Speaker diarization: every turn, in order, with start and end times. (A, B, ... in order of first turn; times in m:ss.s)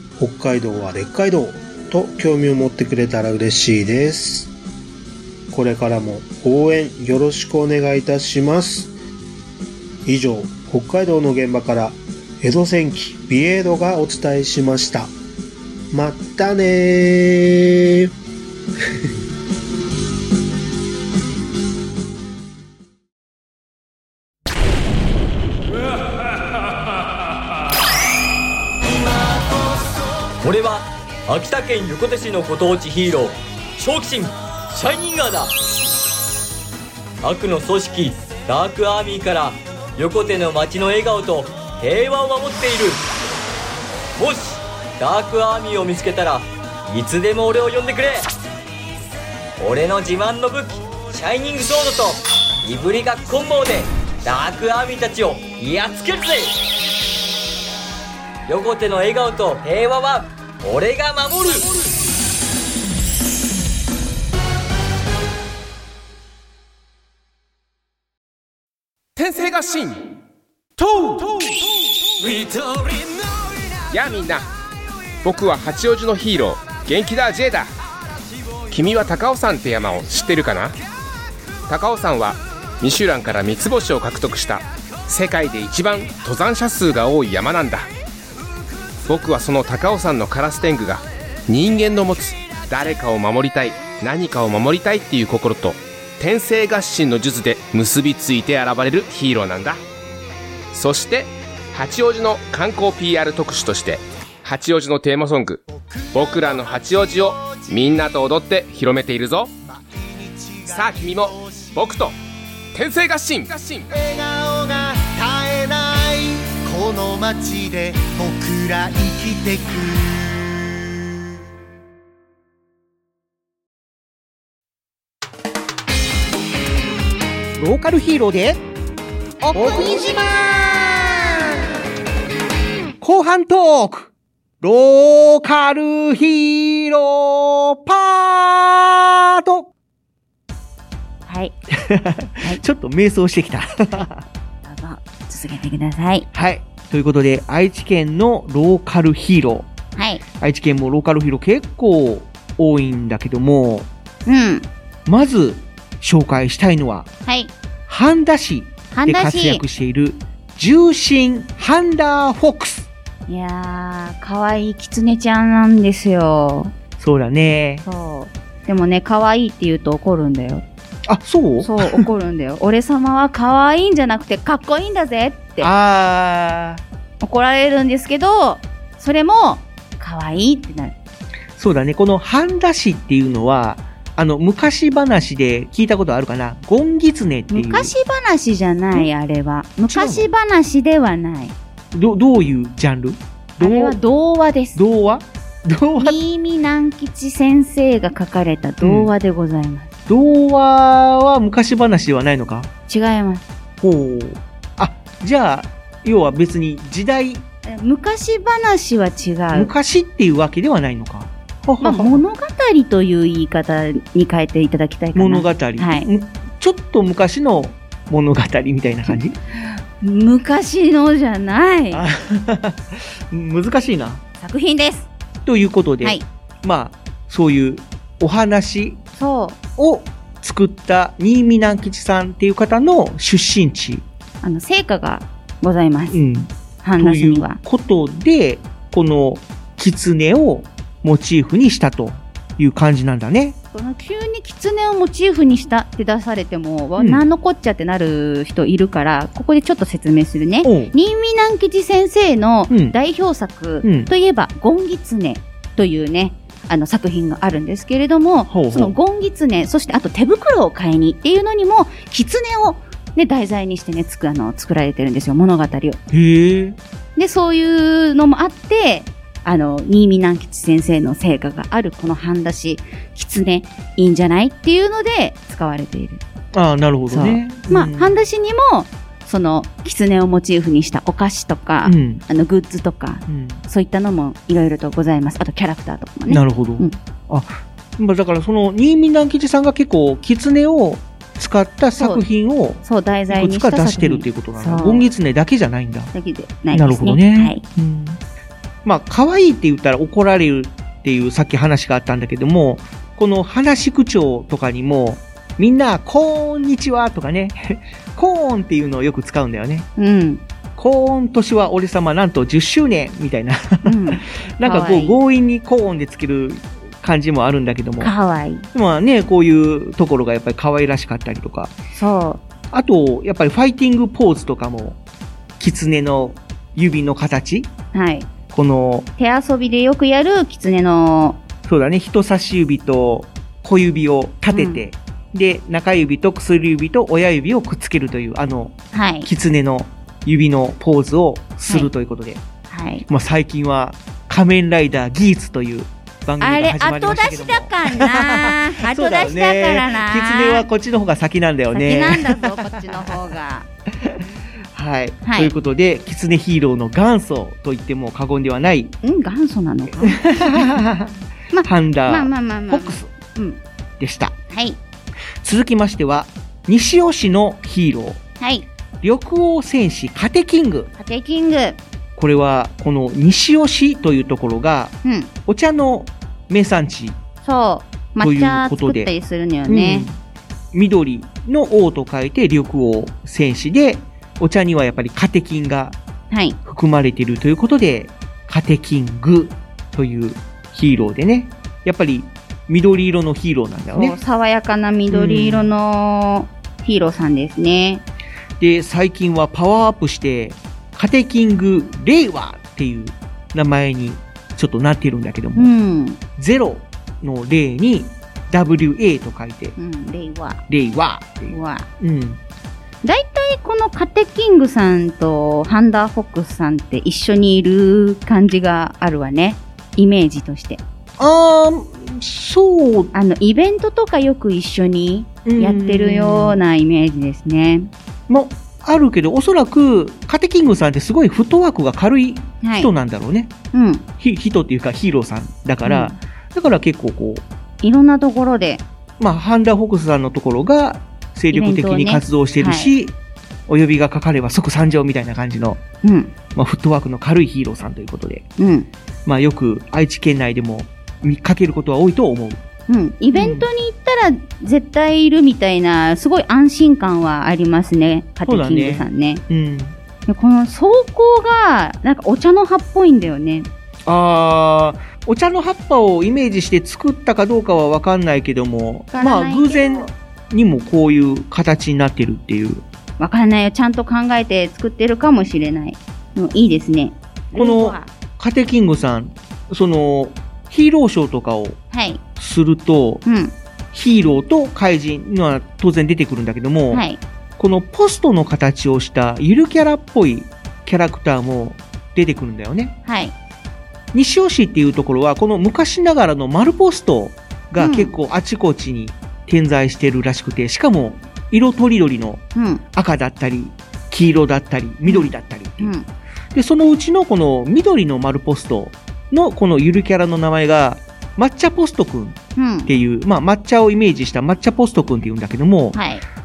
0:00.2-0:04.5 A
0:05.5-0:08.9 A
0:10.0-0:15.1 A
0:15.9-0:18.1 A
0:30.4-0:35.5 B
0:37.2-0:43.0 B
0:44.2-0:48.3 B
0:49.6-0:56.5 B
0:58.5-1:01.7 B
1:09.2-1:10.0 C
1:10.9-1:11.2 C
1:13.9-1:14.5 C
1:15.2-1:17.7 C
1:18.7-1:20.8 C
1:21.7-1:27.9 C
1:29.0-1:39.8 C
1:40.7-1:45.6 C
1:45.7-1:46.7 D
1:46.1-1:49.5 C
1:47.3-1:47.7 D
1:49.6-1:51.8 D
1:50.7-1:52.1 C
1:52.7-1:53.9 C
1:53.9-2:00.2 D
2:07.6-2:08.6 E
2:09.5-2:11.5 E
2:13.0-2:19.7 E
2:21.2-2:21.6 F
2:21.7-2:24.2 E
2:24.6-2:26.3 F
2:26.3-2:29.7 E
2:30.0-2:30.2 F
2:30.4-2:33.9 E
2:34.2-2:34.7 F
2:35.0-2:37.1 E
2:37.2-2:37.5 F
2:37.9-2:42.9 E
2:38.9-2:39.6 F
2:43.3-2:46.7 F
2:47.0-2:47.8 E
2:47.8-2:50.6 F
2:51.1-2:52.1 E
2:51.6-2:55.7 F
2:55.6-2:56.8 E
2:57.2-3:00.9 F
3:01.6-3:07.9 E
3:07.5-3:11.5 F
3:09.9-3:10.3 E
3:11.9-3:14.0 E
3:13.6-3:14.8 F
3:14.7-3:16.2 E
3:16.0-3:19.9 F
3:18.8-3:19.1 E
3:20.1-3:22.7 E
3:22.9-3:23.4 F
3:23.8-3:27.4 E
3:27.6-3:29.7 F
3:29.5-3:32.2 E
3:31.8-3:36.1 F
3:35.1-3:39.4 E
3:39.1-3:42.0 F
3:41.9-3:44.2 E
3:44.4-3:45.1 F
3:45.4-3:49.0 E
3:49.2-3:49.6 F
3:49.8-3:54.0 E
3:54.4-3:56.2 F
3:56.1-4:03.6 E
3:56.8-3:57.6 F
4:03.7-4:26.0 F
4:07.0-4:07.2 E
4:10.6-4:10.9 E
4:12.7-4:13.0 E
4:13.8-4:14.1 E
4:18.5-4:19.0 E
4:26.1-4:26.8 E
4:27.2-4:36.2 F
4:36.5-4:38.2 E
4:37.1-4:47.0 F
4:41.8-4:42.2 E
4:43.3-4:43.6 E
4:46.3-4:56.1 E
4:52.0-4:52.2 F
4:52.8-4:55.0 F
4:56.1-4:57.6 F
4:56.7-4:58.2 E
4:58.8-5:09.9 E
5:10.0-5:10.4 F
5:10.8-5:18.1 E
5:13.8-5:15.2 F
5:18.0-5:18.7 F
5:18.7-5:21.7 E
5:21.9-5:22.4 F
5:22.7-5:25.0 E
5:25.6-5:27.7 E
5:27.9-5:28.3 F
5:28.5-5:29.1 E
5:29.2-5:31.4 F
5:31.6-5:42.4 E
5:34.5-5:34.8 F
5:38.9-5:39.3 F
5:41.6-5:41.9 F
5:42.7-5:43.0 F
5:43.1-5:53.2 E
5:46.4-5:50.7 F
5:51.7-5:53.7 F
5:54.0-5:58.9 E
5:55.2-5:55.5 F
5:59.0-6:00.8 F
6:00.0-6:03.1 E
6:01.5-6:03.6 F
6:04.0-6:04.3 E
6:04.5-6:04.8 F
6:05.4-6:08.2 E
6:08.4-6:08.6 F
6:09.0-6:10.9 E
6:11.0-6:11.8 F
6:12.2-6:17.2 E
6:15.0-6:15.3 F
6:17.4-6:20.1 F
6:18.2-6:19.1 E
6:19.6-6:20.2 E
6:20.7-6:26.0 E
6:26.3-6:26.6 F
6:26.6-6:34.2 E
6:33.9-6:38.0 F
6:35.1-6:35.7 E
6:38.6-6:45.7 E
6:45.6-6:46.2 F
6:46.4-6:49.7 E
6:49.8-6:50.6 F
6:50.7-6:52.4 E
6:51.5-6:51.9 F
6:53.0-7:00.8 F
7:01.2-7:03.1 E
7:03.1-7:07.9 F
7:05.4-7:06.6 E
7:08.3-7:13.5 E
7:12.6-7:12.9 F
7:13.7-7:14.0 F
7:14.2-7:17.4 E
7:15.8-7:16.2 F
7:17.8-7:18.8 F
7:19.2-7:23.1 E
7:21.5-7:22.9 F
7:23.7-7:25.8 E
7:26.0-7:26.3 F
7:26.5-7:28.4 E
7:28.6-7:28.9 F
7:29.2-7:32.6 E
7:32.9-7:39.4 F
7:33.3-7:33.7 E
7:38.4-7:40.0 E
7:40.3-7:43.7 F
7:44.0-7:52.8 E
7:49.1-7:50.1 F
7:53.2-7:58.1 F
7:57.5-8:01.8 E
8:01.9-8:02.2 F
8:02.4-8:03.2 E
8:03.2-8:03.5 F
8:03.9-8:07.0 E
8:06.9-8:07.2 F
8:07.6-8:12.9 E
8:13.0-8:13.3 F
8:14.1-8:22.4 E
8:17.8-8:18.1 F
8:22.5-8:22.8 F
8:22.9-8:25.9 E
8:25.0-8:26.1 F
8:26.5-8:36.0 E
8:32.6-8:32.9 F
8:35.9-8:36.2 F